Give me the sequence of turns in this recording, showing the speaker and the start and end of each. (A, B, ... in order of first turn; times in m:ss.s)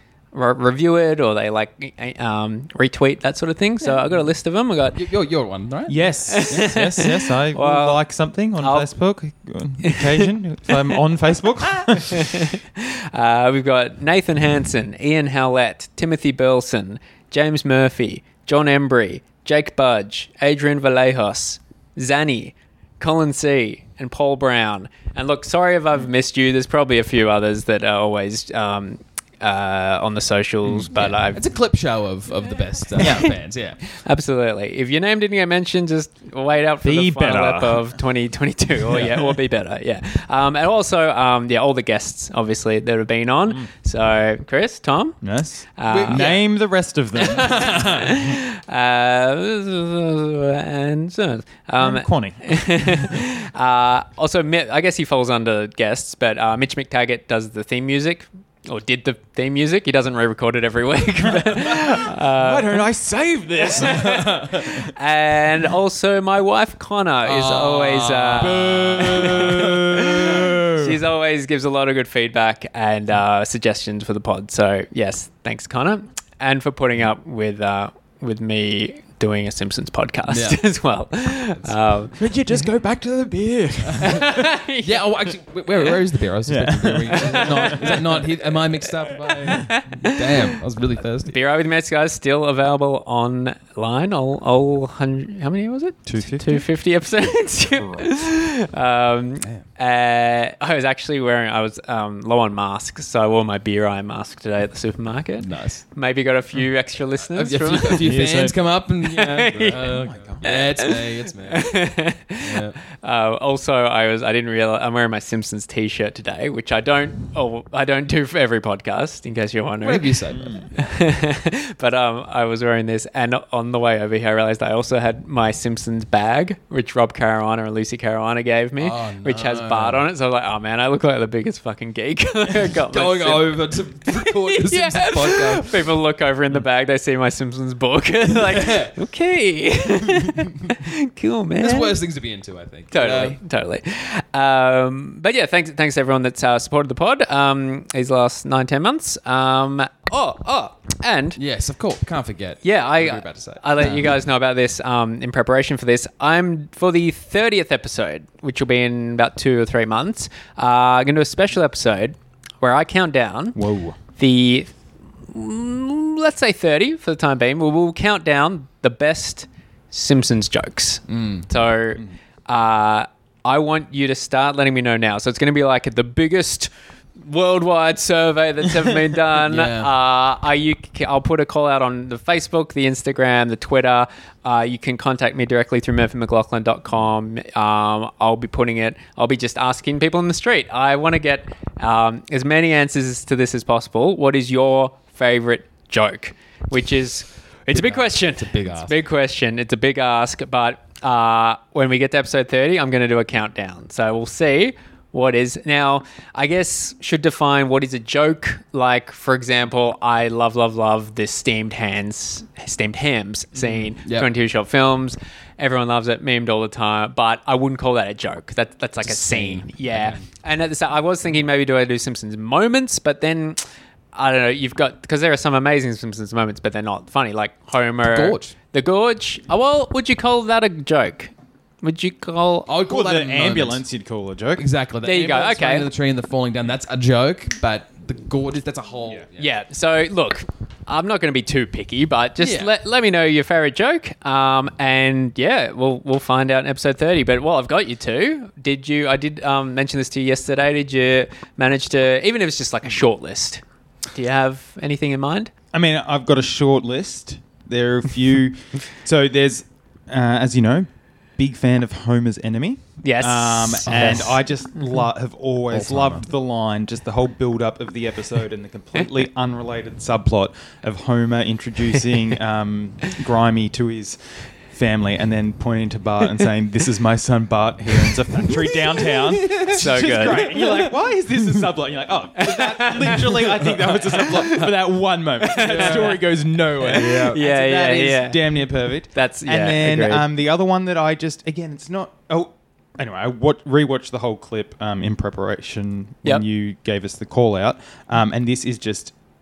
0:00.3-0:05.0 A
0:04.9-0:06.9 B
0:05.9-0:12.3 C
0:06.3-0:08.0 A
0:08.6-0:08.9 A
0:09.8-0:10.8 A
0:12.0-0:31.4 A
0:30.6-0:31.0 C
0:30.9-0:33.8 B
0:33.0-0:33.3 C
0:33.9-0:46.4 A
0:36.8-0:37.8 C
0:38.9-0:39.3 C
0:45.2-0:48.2 C
0:45.9-0:46.4 B
0:47.2-1:02.8 A
0:47.3-0:48.1 B
0:51.8-0:53.2 C
1:01.5-1:04.9 C
1:03.8-1:04.1 A
1:03.9-1:04.6 B
1:04.9-1:22.2 A
1:07.2-1:10.0 B
1:08.4-1:11.0 C
1:20.3-1:20.7 B
1:21.5-1:21.8 B
1:22.2-1:24.4 C
1:23.8-1:31.4 B
1:24.0-1:25.3 A
1:26.4-1:27.9 C
1:27.2-1:28.3 A
1:28.8-1:30.5 A
1:31.2-1:48.3 A
1:36.0-1:36.6 C
1:45.4-1:45.8 B
1:47.2-1:52.8 B
1:48.0-1:48.6 C
1:49.0-2:00.2 A
1:49.7-1:50.5 C
1:59.8-2:00.7 B
2:00.3-2:00.7 C
2:00.7-2:13.5 A
2:08.8-2:10.1 B
2:12.9-2:15.8 B
2:14.0-2:22.0 A
2:18.3-2:19.0 B
2:21.6-2:23.4 B
2:22.9-2:31.4 A
2:31.4-2:34.1 B
2:32.6-2:43.6 A
2:43.5-2:44.0 C
2:44.1-3:43.6 A
2:51.1-2:51.5 B
2:59.4-2:59.9 B
3:17.7-3:19.0 B
3:33.6-3:34.3 B
3:39.0-3:40.2 B
3:44.1-3:52.7 A
3:48.0-3:48.5 B
3:52.7-3:53.8 B
3:52.9-3:54.6 C
3:54.6-3:59.5 B
3:55.0-3:55.9 A
3:59.4-4:13.6 A
4:02.4-4:02.7 B
4:14.1-4:15.5 A
4:15.7-4:59.1 C
4:23.0-4:24.4 A
4:23.8-4:24.4 B
4:25.7-4:26.3 B
4:38.0-4:40.5 B
4:39.7-4:40.7 A
4:42.4-4:43.5 A
4:43.6-4:44.7 B
4:44.2-4:44.7 A
4:45.4-4:46.2 A
4:45.5-4:46.2 B
4:46.8-4:50.2 A
4:46.9-4:47.4 B